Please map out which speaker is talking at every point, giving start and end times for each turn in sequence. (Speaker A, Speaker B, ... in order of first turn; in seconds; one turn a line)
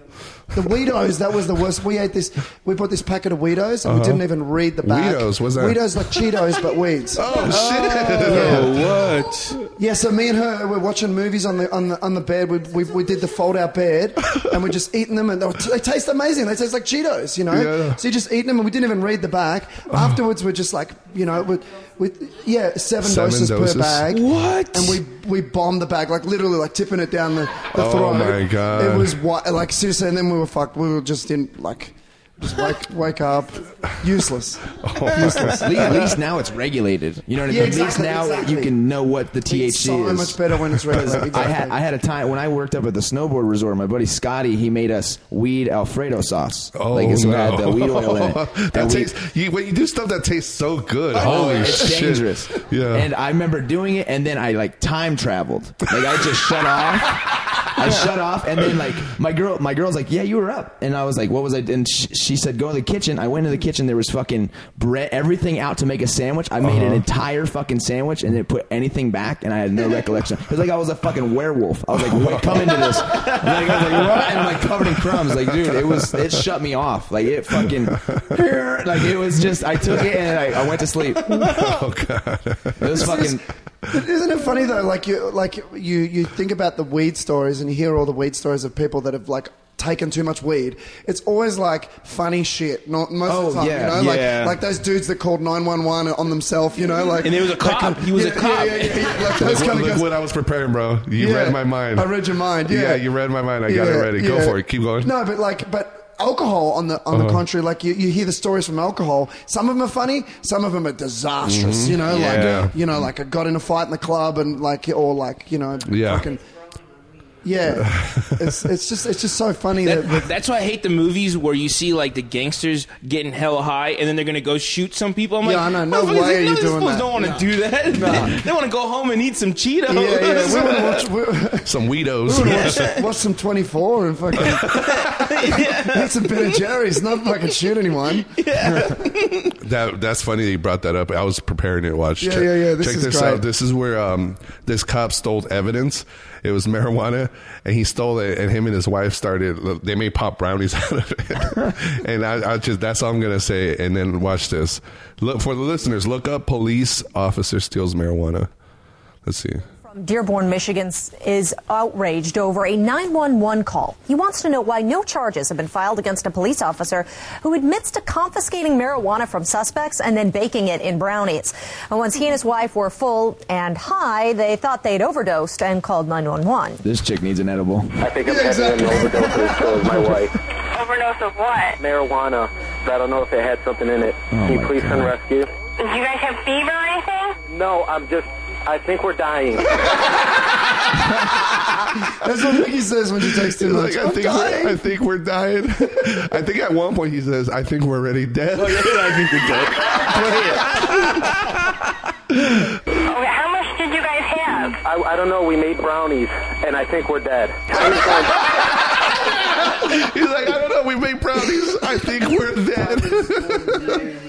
Speaker A: 0.5-7.5
Speaker B: 3.9-4.2
Speaker B: 4.8-6.0
Speaker B: 7.2-8.8
Speaker C: 7.3-9.6
Speaker A: 8.2-8.8
Speaker A: 9.8-34.7
Speaker B: 17.5-18.0
Speaker B: 19.9-20.2
Speaker B: 23.0-24.1
Speaker C: 24.1-25.0
Speaker B: 27.7-29.2
Speaker B: 34.8-36.1
Speaker D: 35.4-49.1
Speaker A: 37.5-38.8
Speaker A: 39.5-41.8
Speaker B: 46.8-53.1
Speaker D: 51.1-81.5
Speaker B: 66.6-67.0
Speaker B: 72.0-72.8
Speaker B: 75.6-76.0
Speaker B: 81.3-83.1
Speaker D: 82.8-83.4
Speaker A: 82.9-83.4
Speaker A: 83.9-100.1
Speaker D: 93.3-94.1
Speaker C: 93.7-94.6
Speaker C: 97.2-99.6
Speaker B: 99.4-102.1
Speaker A: 101.2-103.0
Speaker B: 102.7-105.1
Speaker A: 103.7-116.4
Speaker B: 107.1-107.4
Speaker B: 111.4-112.8
Speaker C: 112.1-112.6
Speaker B: 115.9-116.3
Speaker A: 117.4-120.3
Speaker B: 117.7-118.5
Speaker C: 119.8-131.1
Speaker A: 125.4-128.4
Speaker A: 129.9-131.7
Speaker B: 131.7-132.9
Speaker A: 132.2-139.0
Speaker C: 132.4-133.0
Speaker B: 134.4-134.9
Speaker C: 134.7-136.6
Speaker C: 138.3-139.5
Speaker B: 139.6-158.5
Speaker A: 142.2-143.4
Speaker B: 159.2-159.7
Speaker E: 159.8-176.8
Speaker D: 176.8-178.0
Speaker F: 178.0-180.3
Speaker A: 178.2-180.1
Speaker G: 180.7-181.8
Speaker F: 181.8-185.5
Speaker D: 184.3-185.1
Speaker G: 185.8-187.4
Speaker F: 187.5-189.8
Speaker A: 192.2-194.8
Speaker B: 193.5-199.1
Speaker C: 198.6-201.3
Speaker G: 203.1-204.8
Speaker F: 204.7-208.4
Speaker B: 209.7-214.0